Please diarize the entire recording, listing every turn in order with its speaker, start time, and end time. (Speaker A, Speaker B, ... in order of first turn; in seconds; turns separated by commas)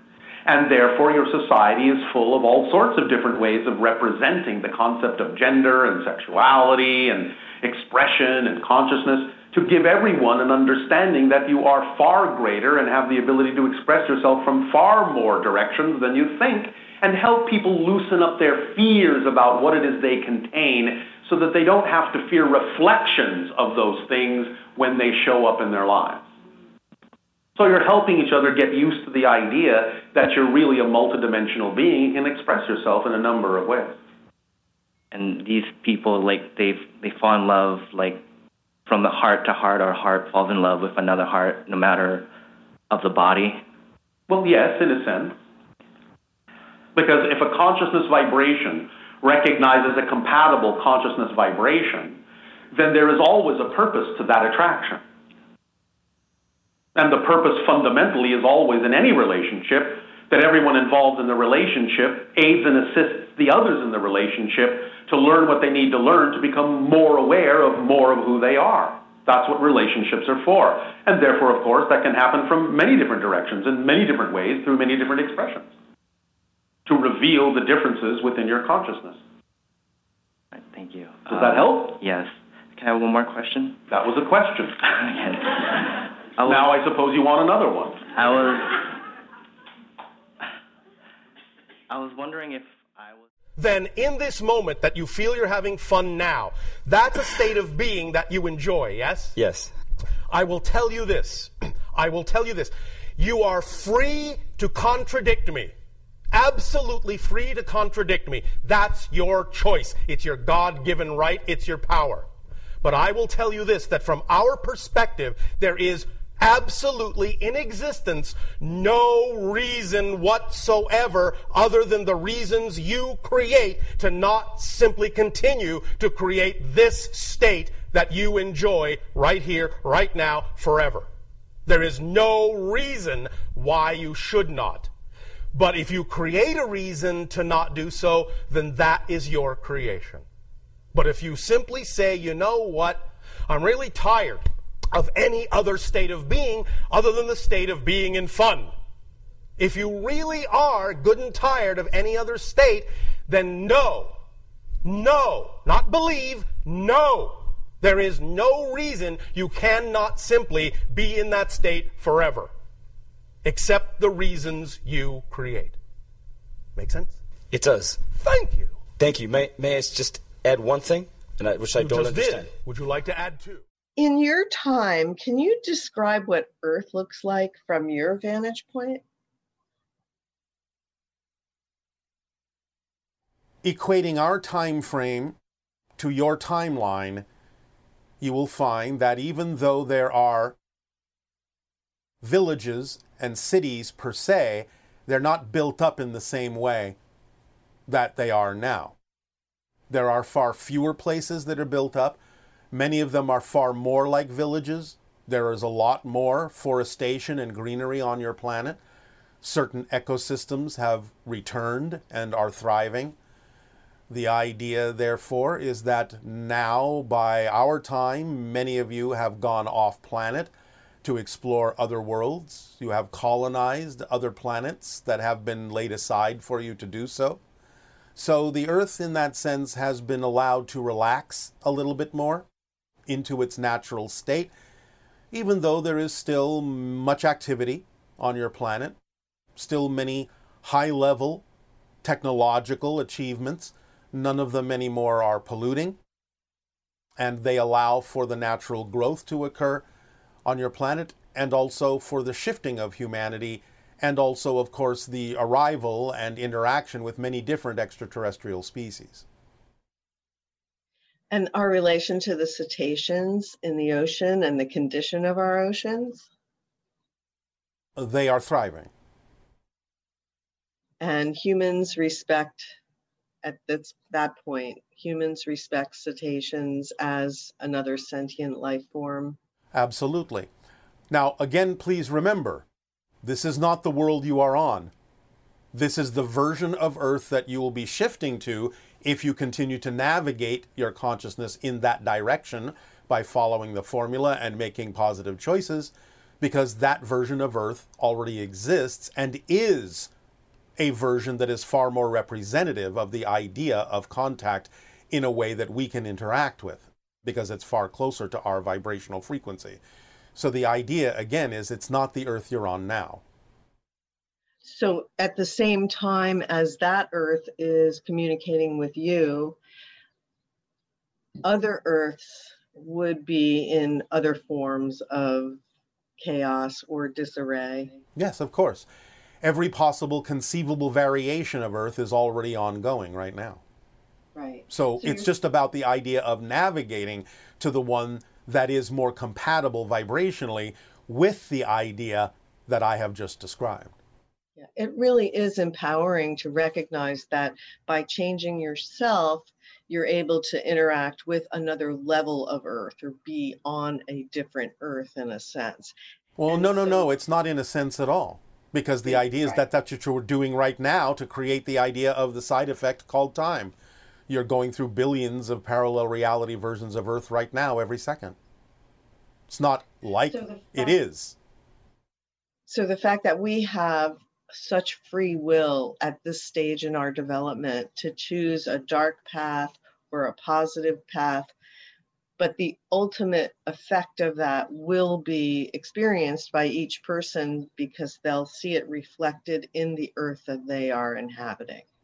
Speaker A: 0.5-26.2, Speaker A: 27.6-34.0, Speaker B: 35.1-38.2, Speaker B: 38.9-42.3, Speaker B: 42.9-43.6, Speaker A: 44.3-45.4, Speaker A: 47.0-52.2, Speaker A: 52.7-55.0, Speaker A: 57.0-75.7, Speaker A: 76.9-79.2, Speaker B: 80.5-83.8, Speaker A: 81.3-82.0, Speaker A: 83.9-84.8, Speaker B: 84.9-86.7, Speaker A: 86.4-88.0, Speaker B: 88.1-88.9, Speaker B: 91.9-93.3, Speaker C: 93.6-99.3, Speaker D: 99.3-99.7, Speaker C: 100.3-105.7, Speaker C: 106.3-112.3, Speaker C: 112.8-131.1, Speaker C: 131.7-134.9, Speaker C: 135.5-140.2, Speaker C: 140.9-148.7, Speaker C: 149.6-154.2, Speaker C: 154.8-162.5, Speaker C: 163.4-165.8, Speaker C: 166.8-167.2, Speaker D: 167.5-168.0, Speaker C: 168.1-168.8, Speaker D: 169.0-172.5, Speaker C: 171.8-173.6, Speaker E: 174.0-179.0, Speaker F: 183.6-185.4, Speaker F: 186.0-187.3, Speaker F: 188.2-190.6, Speaker F: 192.2-197.0, Speaker F: 197.9-199.0, Speaker F: 199.9-202.2, Speaker F: 202.7-208.8, Speaker F: 209.4-213.2, Speaker F: 214.1-220.5, Speaker F: 221.0-227.4, Speaker F: 228.2-232.5, Speaker F: 233.1-234.5, Speaker F: 235.3-239.0, Speaker F: 239.6-241.4, Speaker F: 242.0-246.0, Speaker F: 247.2-249.8, Speaker F: 250.4-259.2, Speaker E: 261.3-266.3, Speaker F: 268.0-268.9, Speaker E: 271.0-272.7, Speaker E: 273.4-279.4, Speaker F: 279.7-280.5, Speaker F: 281.1-282.7, Speaker F: 283.2-284.9, Speaker F: 285.7-300.1, Speaker F: 300.8-309.8, Speaker F: 310.4-313.2, Speaker E: 314.6-319.6, Speaker E: 321.4-325.6, Speaker E: 326.2-328.0, Speaker F: 328.2-328.9, Speaker F: 329.4-333.6, Speaker E: 334.4-335.3, Speaker F: 334.7-343.9, Speaker E: 344.6-355.9, Speaker F: 356.4-363.8, Speaker E: 356.5-357.1, Speaker E: 359.1-359.6, Speaker F: 364.3-368.4, Speaker F: 369.5-371.4, Speaker E: 370.3-370.9, Speaker E: 372.7-381.5, Speaker E: 382.4-391.9